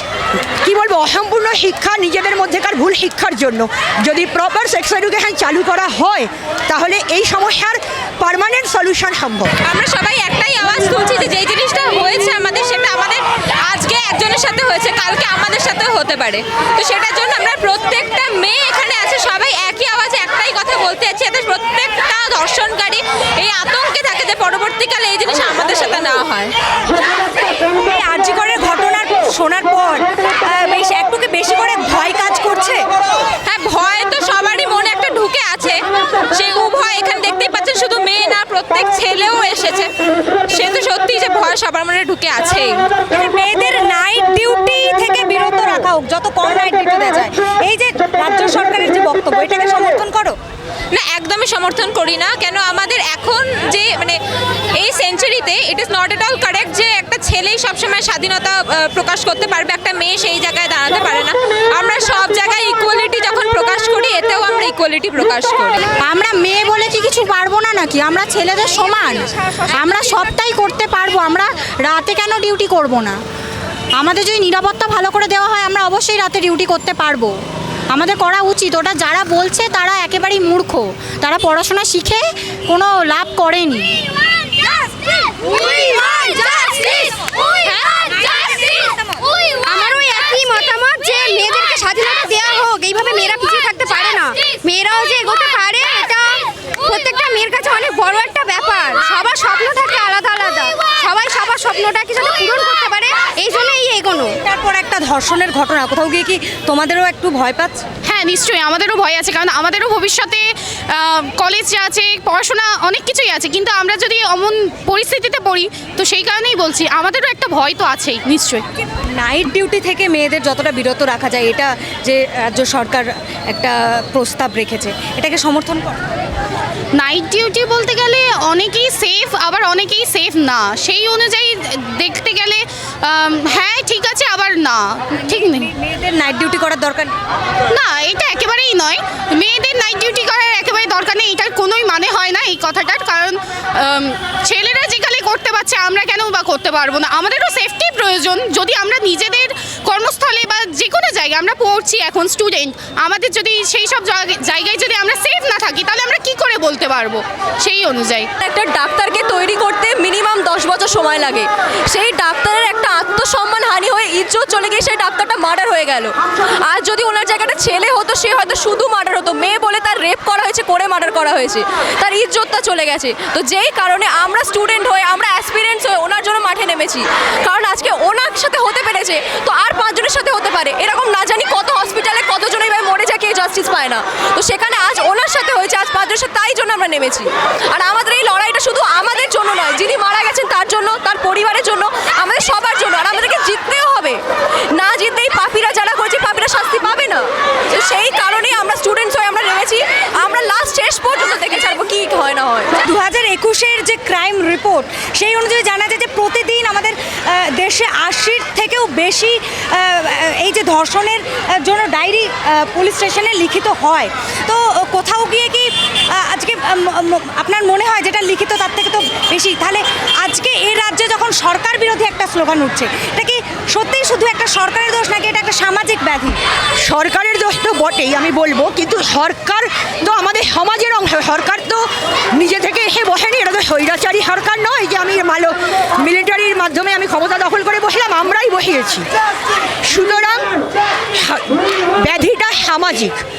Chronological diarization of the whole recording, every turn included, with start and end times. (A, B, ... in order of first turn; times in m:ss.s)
0:00.6-0:09.5 A
0:09.6-0:26.5 B
0:27.6-0:32.9 C
0:33.4-0:39.9 B
0:40.5-0:42.9 B
0:43.1-0:50.4 C
0:50.9-0:54.2 B
0:54.8-1:05.8 B
1:06.0-1:13.2 D
1:14.0-1:17.3 D
1:17.9-1:24.0 D
1:25.8-1:27.1 B
1:28.1-1:28.6 B
1:29.7-1:44.4 E
1:44.4-1:47.8 C
1:48.0-1:58.6 F
1:59.1-2:06.1 C
2:07.0-2:15.7 F
2:15.4-2:17.1 C
2:17.7-2:38.3 F
2:38.4-2:46.1 B
2:46.6-3:14.2 B
3:14.7-3:22.8 B
3:22.8-3:46.4 C
3:46.8-3:59.1 A
3:59.9-4:00.5 A
4:01.2-4:03.2 A